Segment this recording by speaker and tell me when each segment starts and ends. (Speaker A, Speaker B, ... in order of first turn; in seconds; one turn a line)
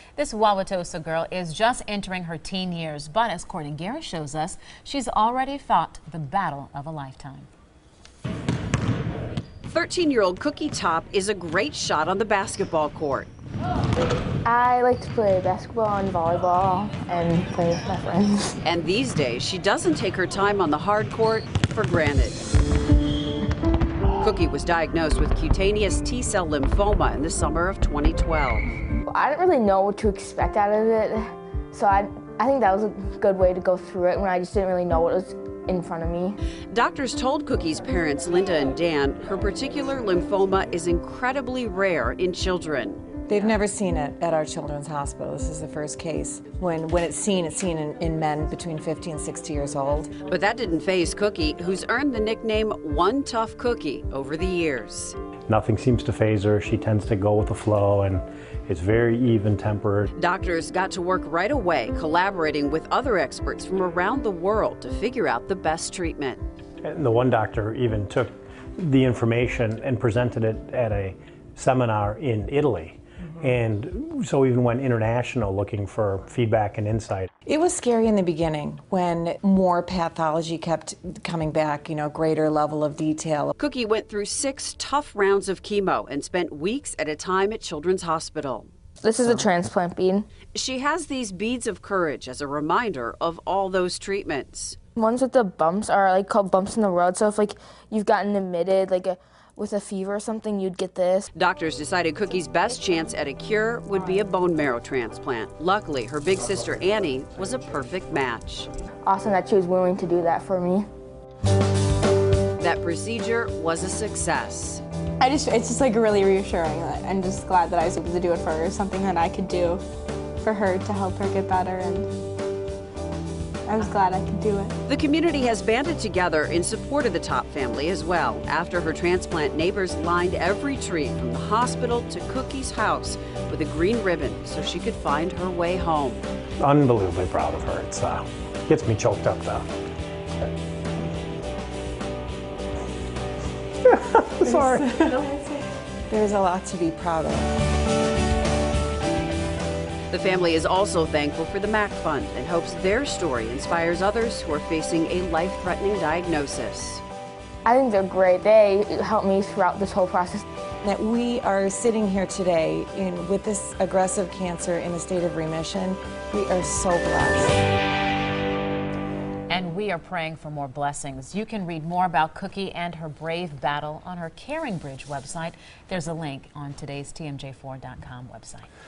Speaker A: 0.1-7.5
Speaker B: 9.7-13.3
Speaker C: 14.4-18.6
Speaker B: 18.6-22.4
Speaker B: 24.2-28.7
Speaker C: 29.1-36.4
Speaker B: 36.7-43.0
Speaker D: 43.3-50.1
Speaker B: 50.3-55.1
Speaker E: 55.5-60.1
Speaker B: 60.2-66.4
Speaker E: 66.8-77.3
Speaker D: 77.5-83.5
Speaker B: 83.6-88.7
Speaker C: 89.0-90.3
Speaker B: 90.5-94.8
Speaker C: 95.0-101.3
Speaker B: 101.3-108.7
Speaker C: 109.0-110.8
Speaker B: 112.6-114.8
Speaker F: 115.2-119.8
Speaker F: 120.4-122.1
Speaker F: 123.6-124.8
Speaker B: 124.9-136.2
Speaker E: 136.6-139.7
Speaker D: 144.4-144.9
Speaker F: 144.4-145.6
Speaker D: 146.1-147.5
Speaker B: 150.1-157.0
Speaker C: 157.6-160.4
Speaker D: 160.8-167.6
Speaker A: 169.5-178.7